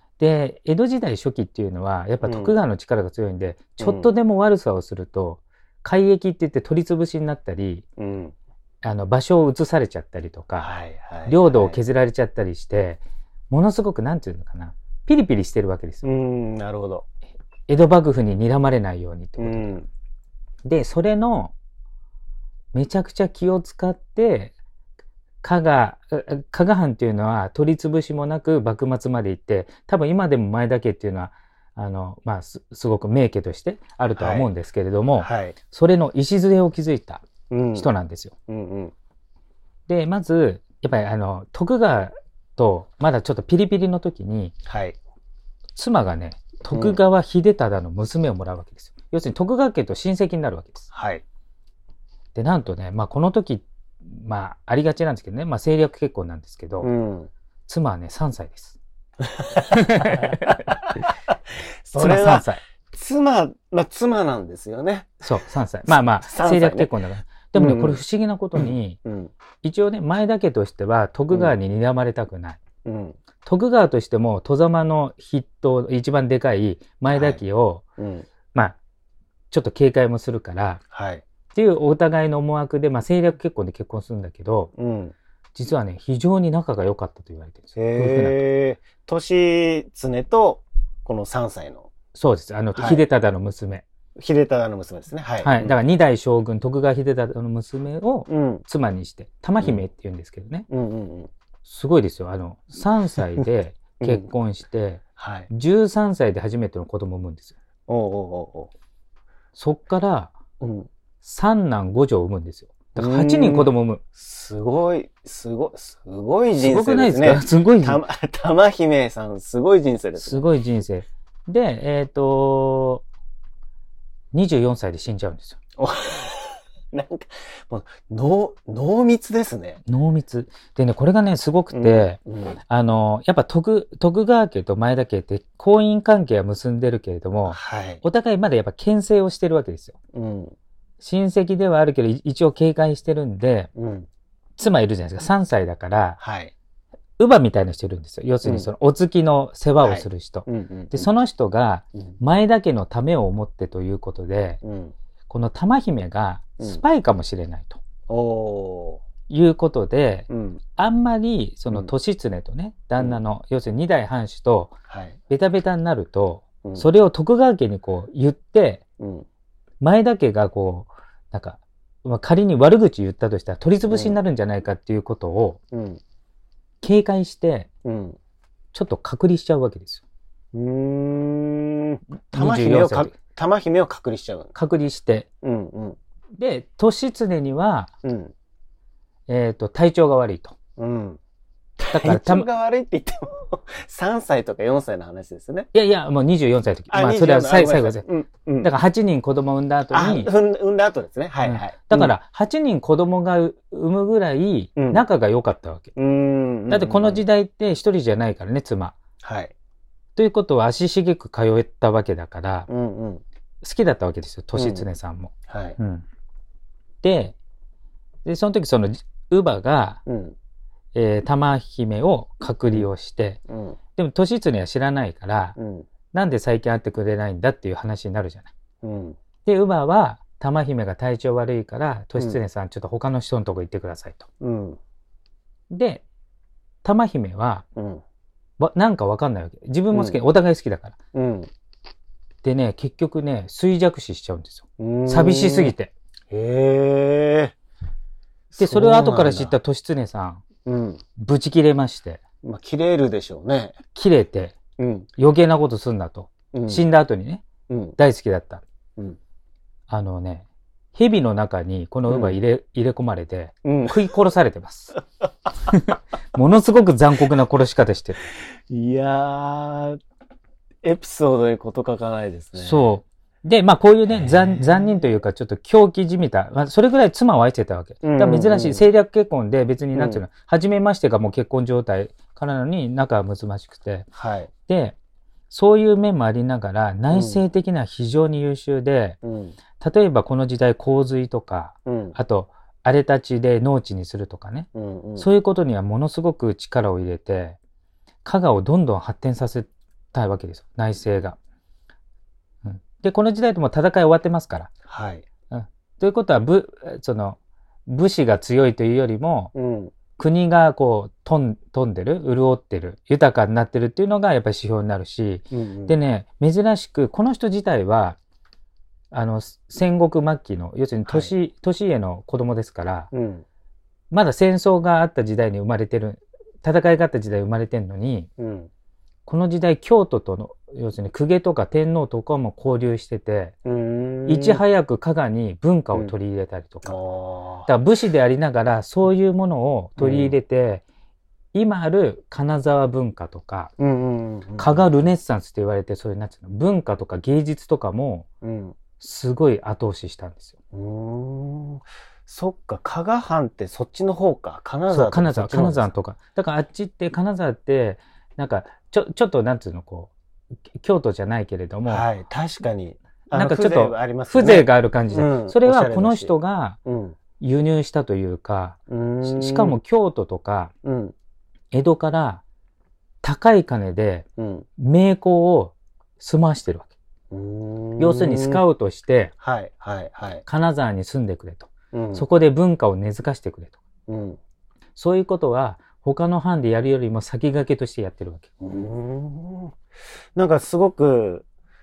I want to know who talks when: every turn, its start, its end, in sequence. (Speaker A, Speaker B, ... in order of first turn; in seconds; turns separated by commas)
Speaker A: 0.2-7.8, Speaker B: 2.2-2.6, Speaker B: 3.8-4.1, Speaker B: 8.0-8.3, Speaker A: 8.8-10.7, Speaker B: 10.6-11.8, Speaker A: 11.3-16.1, Speaker B: 16.0-17.0, Speaker A: 17.7-19.8, Speaker B: 19.4-19.9, Speaker A: 20.6-21.5, Speaker A: 22.7-24.5, Speaker A: 25.4-38.3, Speaker B: 34.1-34.5, Speaker B: 35.2-35.6, Speaker B: 37.5-37.9, Speaker B: 38.5-38.9, Speaker A: 39.9-44.5, Speaker B: 44.6-45.0, Speaker A: 45.8-50.9, Speaker B: 46.7-47.0, Speaker B: 50.9-51.2, Speaker A: 52.3-56.9, Speaker B: 56.8-57.3, Speaker A: 57.7-58.8, Speaker B: 59.3-60.8, Speaker A: 59.7-60.5, Speaker B: 61.8-65.3, Speaker A: 62.0-62.6, Speaker A: 65.2-69.0, Speaker B: 65.9-66.9, Speaker B: 67.5-68.0, Speaker B: 68.5-69.3, Speaker A: 69.6-72.6, Speaker B: 72.8-73.2, Speaker A: 73.4-77.8, Speaker B: 77.1-77.4, Speaker B: 78.0-78.3, Speaker A: 79.5-80.8, Speaker B: 80.9-81.2, Speaker A: 81.5-84.7, Speaker B: 84.8-85.1, Speaker A: 85.5-88.4, Speaker B: 87.8-91.9, Speaker A: 92.1-93.8, Speaker B: 92.7-93.0, Speaker B: 94.2-95.7, Speaker A: 95.4-100.7, Speaker B: 98.3-98.6, Speaker B: 100.7-101.3, Speaker A: 101.6-107.5, Speaker B: 104.0-104.3, Speaker B: 105.2-105.5, Speaker B: 107.9-108.7, Speaker A: 109.5-110.3, Speaker B: 110.6-110.9, Speaker A: 111.2-114.0, Speaker B: 113.0-120.5, Speaker A: 116.6-118.0, Speaker A: 120.2-123.0, Speaker A: 124.3-125.6, Speaker B: 125.8-129.8, Speaker A: 129.9-132.2, Speaker B: 131.7-132.6, Speaker A: 132.7-139.9, Speaker B: 137.5-138.0, Speaker B: 140.1-140.6, Speaker A: 141.0-143.7, Speaker B: 143.8-144.1, Speaker A: 144.6-146.2, Speaker B: 146.2-146.5, Speaker A: 147.2-154.6, Speaker B: 148.4-148.7, Speaker B: 149.8-151.1, Speaker B: 154.6-154.9, Speaker A: 155.3-157.8, Speaker B: 158.1-159.0, Speaker A: 159.3-164.7, Speaker B: 160.3-160.6, Speaker B: 164.9-165.2, Speaker A: 165.3-168.8, Speaker B: 169.0-169.2, Speaker A: 169.8-175.6, Speaker B: 173.9-174.2, Speaker B: 175.7-176.0, Speaker A: 176.8-177.7, Speaker B: 177.8-178.2, Speaker A: 178.7-180.0, Speaker B: 180.5-184.5, Speaker A: 182.3-183.1, Speaker A: 184.5-185.3, Speaker B: 185.4-186.0, Speaker A: 186.4-187.9, Speaker B: 188.0-188.3, Speaker A: 189.3-190.5, Speaker B: 190.8-191.2, Speaker B: 191.8-195.7, Speaker A: 191.9-192.5, Speaker A: 195.7-198.0, Speaker B: 196.9-198.7, Speaker A: 198.6-200.3, Speaker B: 199.9-202.1, Speaker A: 201.4-205.9, Speaker B: 204.8-205.0, Speaker B: 205.9-207.2, Speaker A: 206.7-208.9, Speaker B: 209.2-209.5, Speaker A: 210.2-212.7, Speaker B: 212.7-213.2, Speaker A: 213.6-216.0, Speaker B: 214.5-214.9, Speaker B: 215.5-215.8, Speaker A: 217.0-217.3, Speaker A: 218.2-220.0, Speaker B: 220.1-220.3, Speaker A: 220.9-223.4, Speaker B: 223.5-223.8, Speaker A: 223.9-225.6, Speaker B: 225.6-225.9, Speaker A: 226.1-228.5, Speaker B: 228.8-229.2, Speaker A: 229.4-234.3, Speaker B: 234.4-234.8, Speaker A: 235.7-236.0, Speaker A: 236.8-237.6, Speaker B: 237.8-238.0, Speaker A: 238.6-240.9, Speaker B: 239.9-240.2, Speaker B: 241.1-241.5, Speaker A: 242.4-245.9, Speaker B: 244.8-245.7, Speaker B: 246.3-247.5, Speaker B: 248.5-249.6, Speaker A: 248.6-250.4, Speaker B: 250.7-251.0, Speaker A: 251.2-252.2, Speaker B: 252.4-253.8, Speaker A: 253.9-254.6, Speaker B: 254.8-255.1, Speaker A: 255.2-257.4, Speaker B: 256.5-256.8, Speaker B: 257.7-257.9, Speaker A: 258.0-258.6, Speaker A: 259.9-264.9, Speaker B: 262.1-262.4, Speaker B: 263.6-264.0, Speaker A: 265.6-268.2, Speaker B: 268.7-270.0, Speaker B: 270.8-272.8, Speaker A: 272.6-284.1, Speaker B: 274.1-275.1, Speaker B: 278.0-278.8, Speaker B: 279.9-280.2, Speaker B: 284.1-284.5, Speaker A: 284.7-284.9, Speaker A: 285.5-289.2, Speaker B: 287.1-287.4, Speaker B: 289.2-289.6, Speaker A: 289.8-297.6, Speaker B: 291.9-292.1, Speaker B: 294.7-295.3, Speaker A: 298.2-301.4, Speaker A: 302.6-304.7, Speaker B: 304.9-305.2, Speaker A: 305.5-309.5, Speaker B: 309.5-309.9, Speaker A: 310.2-318.2, Speaker B: 315.5-316.0, Speaker A: 319.1-323.1, Speaker B: 321.1-321.3, Speaker B: 323.1-323.4, Speaker A: 324.1-328.3, Speaker B: 328.4-328.7, Speaker A: 329.2-333.5, Speaker B: 333.6-334.6, Speaker A: 334.3-337.0, Speaker B: 336.8-337.7, Speaker A: 337.7-340.8, Speaker B: 340.0-340.4, Speaker A: 341.5-343.7, Speaker B: 343.8-345.0, Speaker A: 344.6-348.3, Speaker B: 348.4-348.8, Speaker A: 349.0-350.5, Speaker B: 350.7-355.9, Speaker A: 354.9-360.1, Speaker A: 360.7-362.1, Speaker B: 361.9-366.3, Speaker A: 363.3-366.8, Speaker B: 366.8-367.2, Speaker A: 367.4-370.7, Speaker B: 368.9-369.8, Speaker B: 370.8-371.1, Speaker A: 371.7-372.4, Speaker A: 373.2-374.3, Speaker B: 374.4-374.7, Speaker A: 374.8-376.9, Speaker B: 377.3-378.6, Speaker A: 378.0-379.3, Speaker B: 379.4-380.4, Speaker A: 380.4-383.8, Speaker B: 381.9-382.2, Speaker B: 384.1-384.4, Speaker A: 384.9-388.5, Speaker B: 388.6-389.8, Speaker B: 390.3-391.4